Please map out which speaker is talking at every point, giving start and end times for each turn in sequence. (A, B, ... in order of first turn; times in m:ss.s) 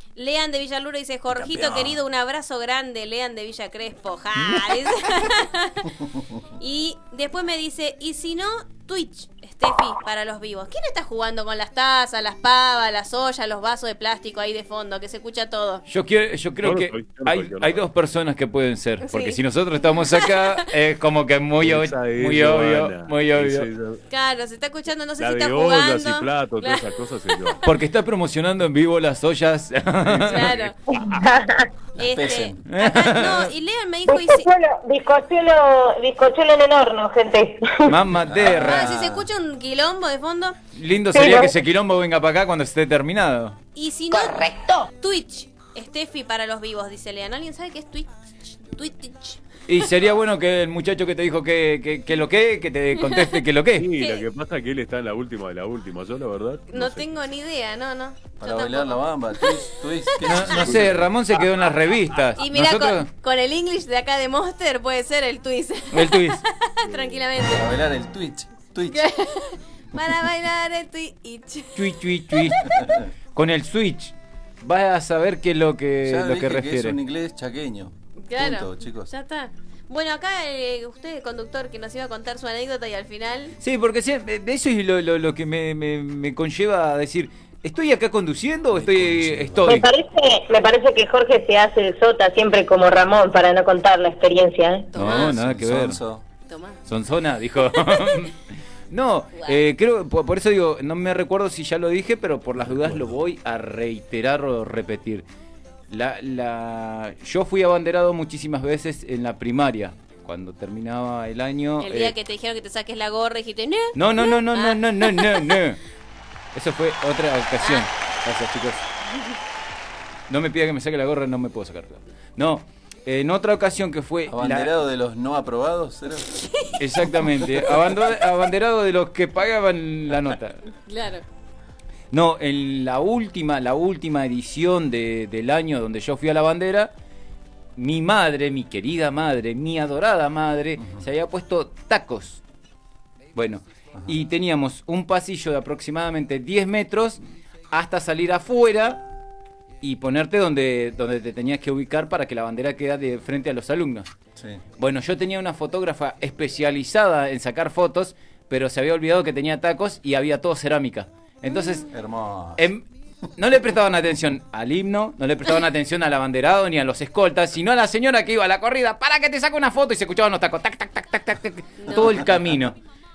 0:00.2-0:05.9 A
0:01.3-0:02.0 B
0:06.6-0:15.8 A
0:15.9-0:23.7 C
0:16.6-0:17.9 D
0:19.0-0:20.6 A
0:21.6-0:24.0 D
0:24.1-0:26.9 A
0:25.2-0:27.6 D
0:27.6-0:30.6 C
0:30.1-0:30.7 D
0:30.2-0:30.8 A
0:30.9-0:31.6 E
0:32.0-0:34.5 A
0:32.0-0:32.6 B
0:32.7-0:33.5 C
0:34.1-0:37.9 E
0:37.9-0:38.9 C
0:38.1-0:39.3 B
0:38.6-0:40.6 A
0:40.7-0:43.6 C
0:41.1-0:41.5 E
0:43.8-0:49.4 A
0:44.3-0:44.7 E
0:49.7-0:53.9 C
0:53.0-0:53.4 A
0:53.8-0:57.1 D
0:54.0-0:54.2 A
0:56.7-1:00.2 A
0:58.4-1:01.1 B
1:00.2-1:03.1 C
1:02.4-1:07.7 A
1:05.9-1:06.4 C
1:06.9-1:07.2 D
1:07.5-1:09.0 B
1:08.9-1:11.8 A
1:11.8-1:12.7 C
1:12.7-1:13.1 B
1:13.4-1:17.0 C
1:16.0-1:19.1 B
1:18.2-1:23.6 A
1:23.6-1:29.9 C
1:28.7-1:29.8 B
1:29.6-1:34.9 E
1:34.9-1:35.4 A
1:35.0-1:36.0 C
1:35.0-1:36.2 B
1:36.5-1:36.8 A
1:36.9-1:38.4 C
1:37.7-1:38.2 A
1:38.9-1:45.2 C
1:42.6-1:43.2 B
1:45.9-1:52.1 C
1:51.8-1:55.5 A
1:54.0-1:55.8 C
1:56.5-1:58.8 C
2:00.3-2:04.7 C
2:04.3-2:06.3 B
2:06.8-2:10.6 C
2:10.9-2:11.2 A
2:12.1-2:16.9 C
2:17.8-2:22.4 C
2:23.4-2:29.0 C
2:29.8-2:34.1 C
2:34.4-2:34.6 B
2:34.8-2:41.9 C
2:41.5-2:41.8 A
2:41.9-2:42.6 B
2:42.6-2:42.8 C
2:43.4-2:52.8 C
2:51.8-2:52.1 A